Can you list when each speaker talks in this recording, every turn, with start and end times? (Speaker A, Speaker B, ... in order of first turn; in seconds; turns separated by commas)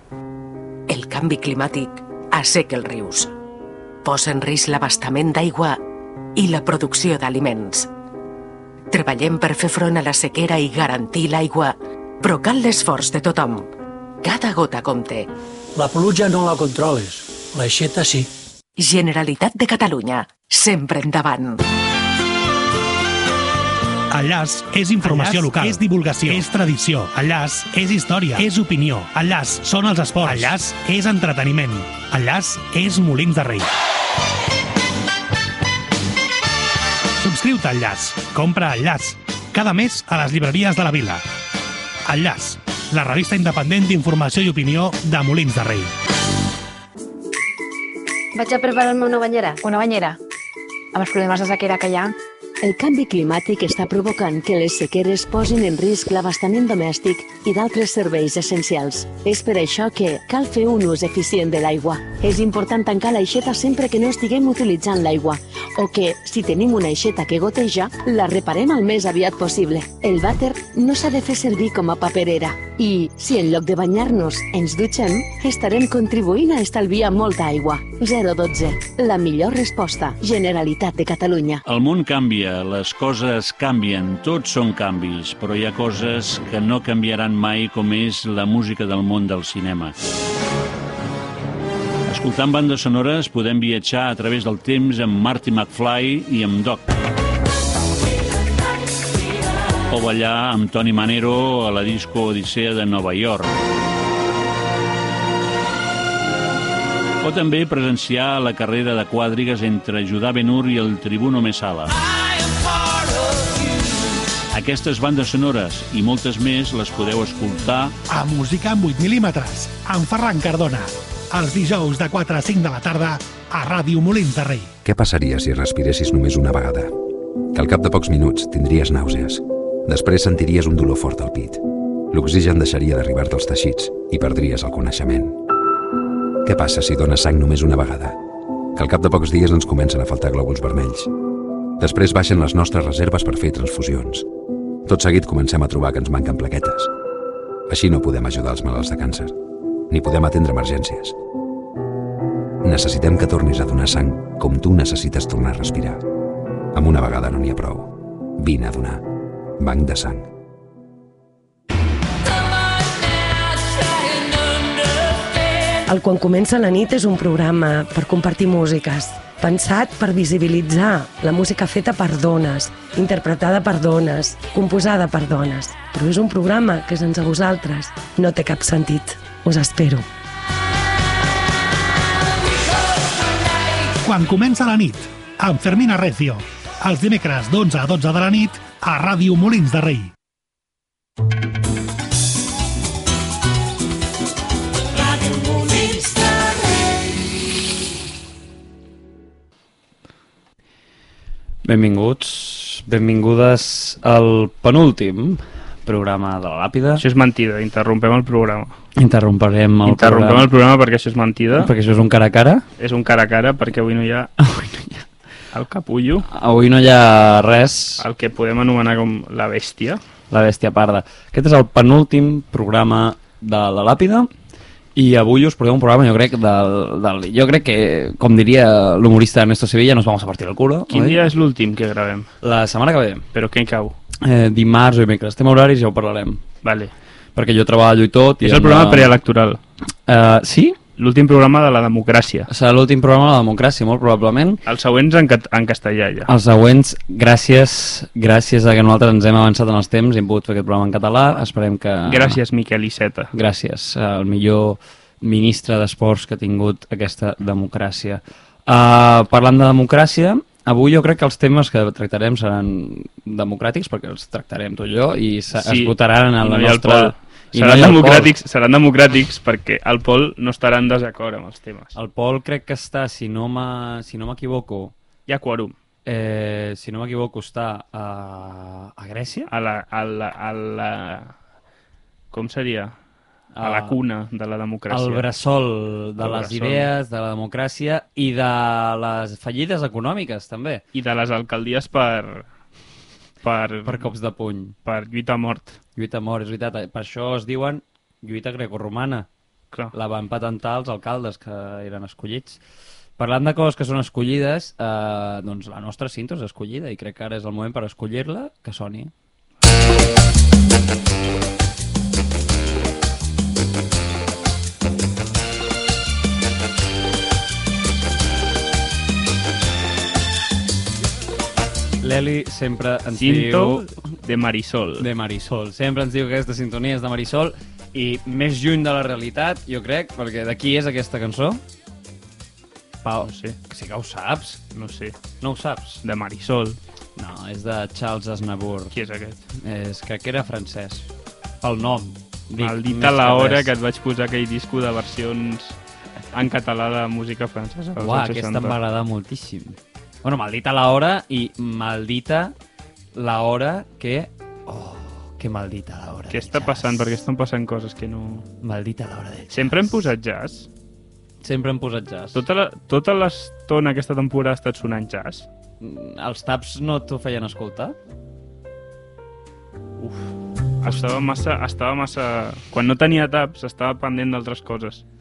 Speaker A: 0.9-3.3, Speaker A: 4.0-5.8, Speaker A: 6.4-7.9, Speaker A: 8.9-13.7, Speaker A: 14.2-15.3, Speaker B: 15.8-18.3, Speaker A: 18.8-21.6, Speaker C: 24.1-33.7, Speaker C: 37.2-41.2, Speaker C: 42.1-45.9, Speaker D: 48.4-50.2, Speaker D: 50.9-52.1, Speaker E: 52.6-81.6, Speaker F: 81.7-90.0, Speaker F: 92.1-96.8, Speaker F: 99.9-103.5, Speaker F: 107.2-111.9, Speaker F: 114.5-118.0, Speaker C: 118.1-124.7, Speaker G: 124.8-126.9, Speaker G: 127.5-135.4, Speaker G: 136.4-138.2, Speaker G: 138.8-141.1, Speaker G: 141.8-144.3, Speaker G: 144.9-146.9, Speaker G: 147.7-149.3, Speaker G: 149.9-151.2, Speaker G: 152.6-156.0, Speaker G: 156.7-159.0, Speaker G: 159.6-160.3, Speaker H: 165.9-180.1, Speaker C: 184.0-190.1, Speaker I: 201.7-207.1, Speaker J: 207.0-208.8, Speaker I: 209.0-210.5, Speaker J: 209.8-211.7, Speaker I: 211.5-212.7, Speaker J: 212.8-214.5, Speaker I: 214.6-215.0, Speaker J: 215.5-216.3, Speaker I: 216.3-218.1, Speaker J: 218.0-220.0, Speaker I: 220.3-224.3, Speaker I: 225.0-231.3, Speaker J: 230.9-232.3, Speaker I: 232.4-233.3, Speaker J: 233.3-234.0, Speaker I: 234.2-236.4, Speaker J: 236.6-236.9, Speaker I: 237.4-239.2, Speaker J: 238.4-239.6, Speaker I: 240.1-240.8, Speaker J: 241.0-242.5, Speaker I: 242.5-244.6, Speaker J: 244.7-246.3, Speaker I: 246.3-252.4, Speaker J: 252.1-253.3, Speaker I: 253.3-268.3, Speaker J: 265.6-271.9, Speaker I: 271.9-274.9, Speaker J: 275.3-275.8, Speaker I: 276.1-279.5, Speaker J: 279.5-281.4, Speaker J: 282.3-283.0, Speaker I: 283.5-284.0, Speaker J: 283.6-285.2, Speaker I: 284.9-290.9, Speaker J: 286.2-286.9, Speaker J: 290.9-292.5, Speaker J: 293.4-294.1, Speaker I: 293.9-294.8, Speaker J: 294.9-295.8, Speaker I: 295.9-299.3, Speaker I: 299.9-302.6, Speaker I: 303.2-309.1, Speaker I: 322.0-323.9, Speaker J: 323.1-325.1, Speaker I: 325.0-331.6, Speaker I: 333.0-334.6, Speaker J: 333.2-333.6, Speaker J: 334.7-335.2, Speaker I: 335.4-336.0, Speaker J: 336.0-336.8, Speaker I: 337.2-338.9, Speaker J: 338.9-339.4, Speaker I: 339.5-341.1, Speaker I: 341.6-343.7, Speaker J: 342.6-345.8, Speaker J: 346.3-348.8, Speaker I: 347.9-352.6, Speaker I: 353.1-357.1, Speaker J: 356.3-358.5, Speaker I: 358.6-359.9, Speaker J: 359.5-360.7, Speaker I: 361.4-362.4, Speaker J: 362.3-365.5, Speaker I: 365.8-368.0, Speaker J: 370.0-375.1